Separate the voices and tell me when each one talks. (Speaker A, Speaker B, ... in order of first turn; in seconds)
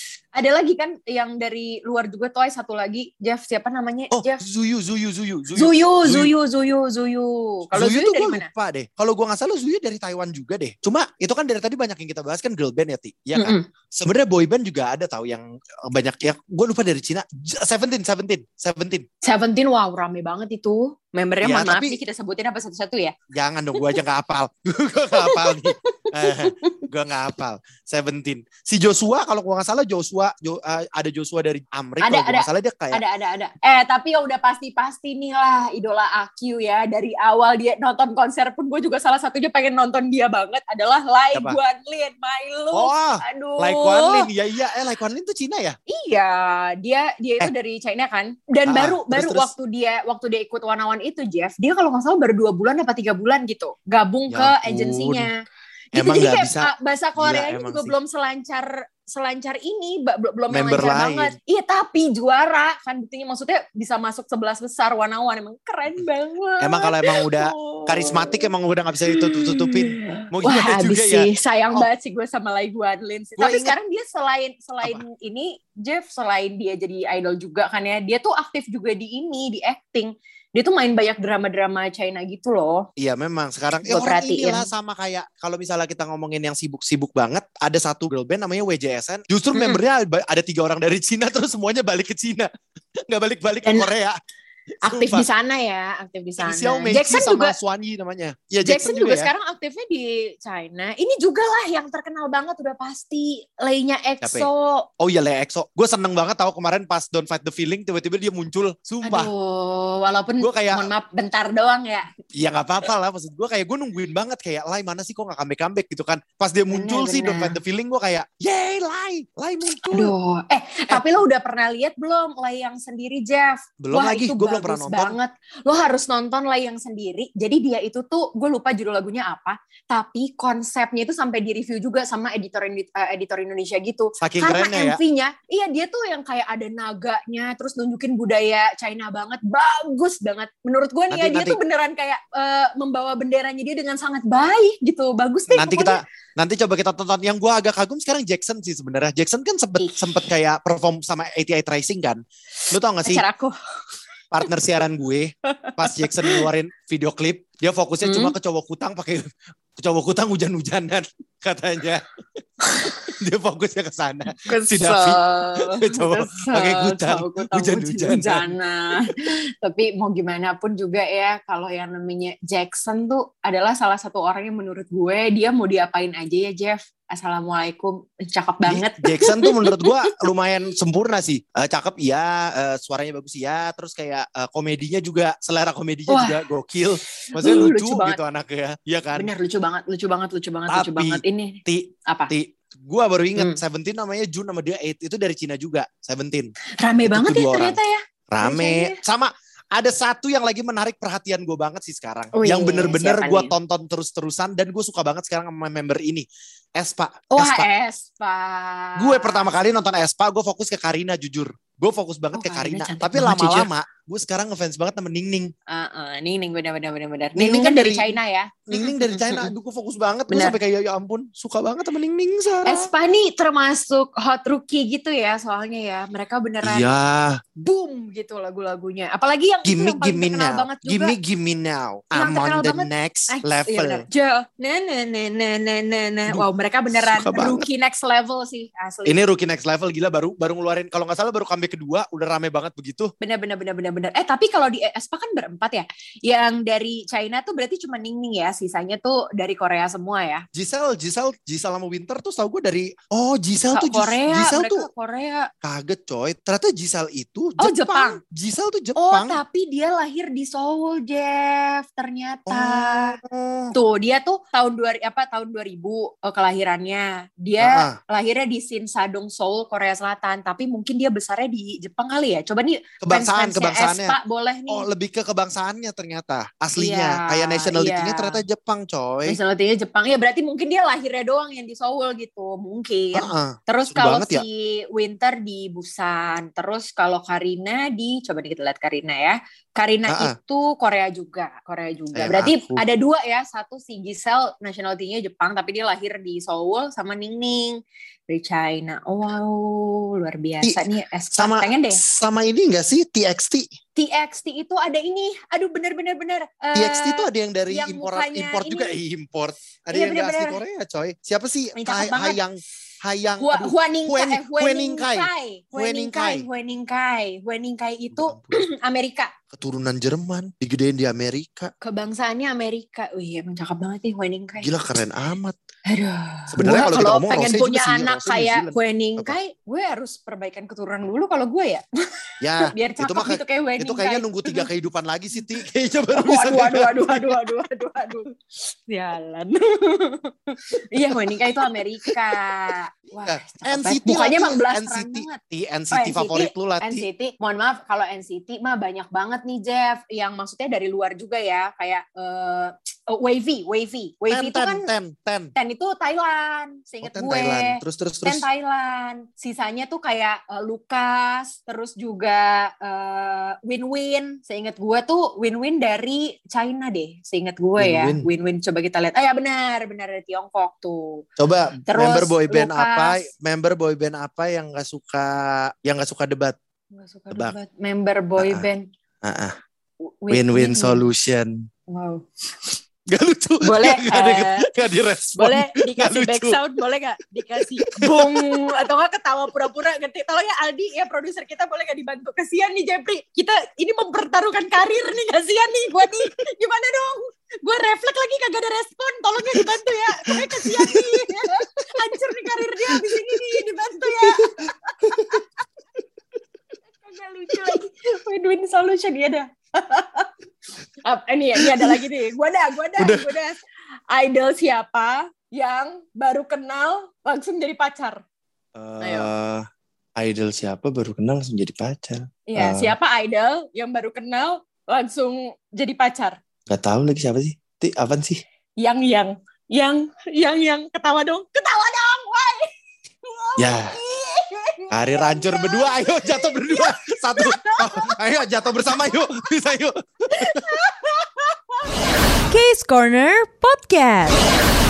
Speaker A: 0.3-4.4, 5.5-8.5, 13.3-13.6, 19.2-23.1, 25.1-26.5, 32.0-44.3, 45.9-55.4, 55.9-68.5, 69.1-82.9, 83.8-84.7, 89.5-89.8, 93.6-93.9, 94.8-97.5, 98.6-104.9, 109.0-112.1, 116.7-117.6, 119.8-146.0, 149.8-150.2, 153.0-153.6, 155.5-156.5, 158.0-158.3, 164.4-180.3, 186.1-186.4, 187.3-188.2, 189.1-192.3, 196.8-199.0, 202.3-203.5, 207.3-209.4, 212.3-213.7, 215.7-219.5, 220.3-220.6, 222.6-226.9, 227.6-231.2, 232.1-239.2, 243.2-250.4, 253.7-255.5, 257.6-258.2, 258.9-263.2, 263.7-274.9, 276.8-278.4, 279.2-302.0, 303.9-309.0, 309.9-310.6, 311.7-312.4, 313.4-319.3, 321.8-324.7, 325.9-334.7, 336.1-338.3, 338.9-345.4, 345.9-354.9, 355.5-371.2, 371.9-373.3, 376.9-378.9, 380.1-381.1, 381.9-382.2, 383.6-384.7, 385.4-405.4, 407.0-410.3, 411.0-413.6, 414.1-418.2, 419.0-419.3, 422.5-426.4, 428.8-432.7, 433.2-438.2, 440.3-441.9
Speaker B: 4.1-6.3, 7.7-19.1, 21.4-22.0, 23.3-33.0, 41.3-41.6, 42.7-45.8, 48.6-49.5, 54.3-55.3, 55.9-58.0, 60.5-61.3, 66.6-71.9, 73.4-73.8, 83.0-92.5, 93.1-94.2, 94.8-95.3, 96.4-99.3, 104.2-109.3, 110.4-110.9, 112.3-120.1, 120.9-121.1, 123.8-125.2, 134.2-135.0, 141.1-141.6, 145.5-153.2, 154.3-159.2, 159.8-162.0, 162.7-168.5, 178.6-189.3, 190.7-197.8, 198.3-207.7, 209.0-215.5, 217.3-222.9, 226.6-227.4, 229.6-234.1, 236.3-237.7, 239.0-243.1, 250.5-254.9, 255.6-259.4, 262.5-263.7, 267.6-268.0, 273.0-274.2, 274.7-279.4, 283.1-284.4, 290.1-290.3, 292.1-292.8, 301.4-303.7, 306.7-316.4, 318.1-318.6, 319.5-321.7, 324.6-325.6, 326.5-329.4, 332.4-337.4, 341.0-347.1, 354.3-355.5, 357.0-358.4, 367.8-368.3, 371.4-376.6, 377.3-377.6, 378.4-378.6, 379.2-379.5, 380.3-381.6, 383.1-386.6, 387.6-388.7, 400.2-405.4, 407.5-407.8, 411.6-412.0, 413.0-413.3, 418.7-419.6, 420.2-422.9, 426.7-428.4, 433.6-434.0, 434.9-440.7
Speaker C: 442.5-444.4